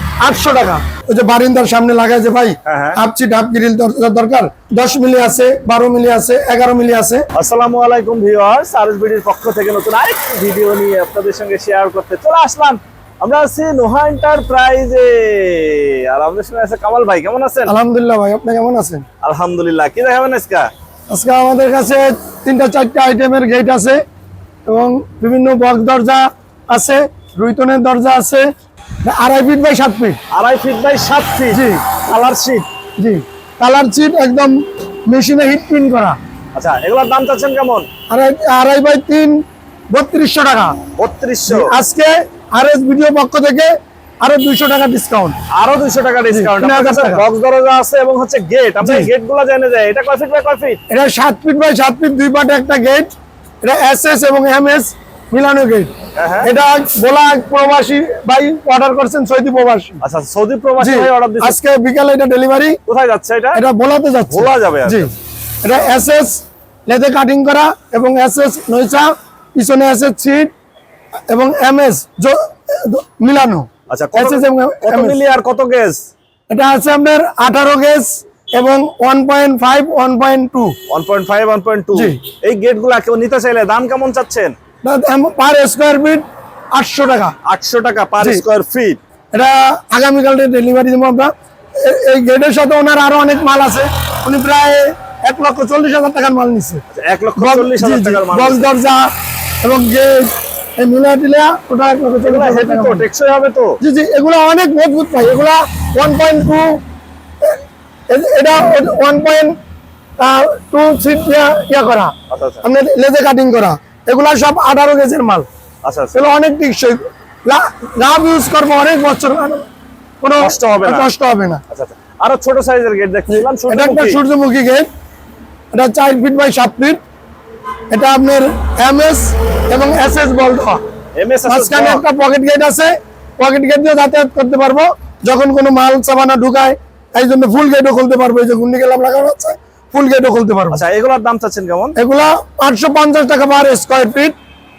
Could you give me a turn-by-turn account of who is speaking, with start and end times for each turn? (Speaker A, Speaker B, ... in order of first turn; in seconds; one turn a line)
Speaker A: 0.2-7.2
Speaker B: 2.6-3.0
Speaker B: 7.3-17.7
Speaker A: 17.6-19.0
Speaker B: 19.2-20.7
Speaker A: 21.1-24.0
Speaker A: 24.6-28.5
Speaker A: 29.0-30.2
Speaker B: 30.3-32.7
Speaker A: 31.5-31.8
Speaker A: 33.0-36.2
Speaker B: 36.5-37.9
Speaker A: 38.1-40.8
Speaker B: 41.0-41.7
Speaker A: 41.5-43.7
Speaker A: 44.2-45.4
Speaker B: 45.5-50.8
Speaker A: 46.3-47.2
Speaker A: 48.8-49.1
Speaker A: 50.9-60.0
Speaker B: 56.1-56.5
Speaker B: 60.0-61.6
Speaker A: 60.8-62.8
Speaker B: 62.9-63.6
Speaker A: 63.5-70.5
Speaker B: 64.3-65.1
Speaker A: 71.3-75.2
Speaker B: 73.9-76.1
Speaker A: 76.5-80.8
Speaker B: 80.9-84.5
Speaker A: 81.9-82.2
Speaker A: 84.8-87.3
Speaker B: 87.4-89.0
Speaker A: 89.3-96.8
Speaker B: 96.9-98.7
Speaker A: 97.4-99.1
Speaker A: 99.6-103.0
Speaker B: 102.2-103.8
Speaker A: 103.8-106.8
Speaker A: 107.4-109.6
Speaker A: 110.2-115.5
Speaker B: 112.3-112.6
Speaker B: 115.8-116.2
Speaker A: 116.1-119.6
Speaker A: 120.2-121.6
Speaker B: 120.4-121.1
Speaker B: 121.7-124.2
Speaker A: 123.3-124.8
Speaker A: 125.7-127.0
Speaker A: 127.9-130.8
Speaker B: 131.2-132.0
Speaker A: 131.4-140.8
Speaker B: 140.7-141.9
Speaker A: 141.9-144.3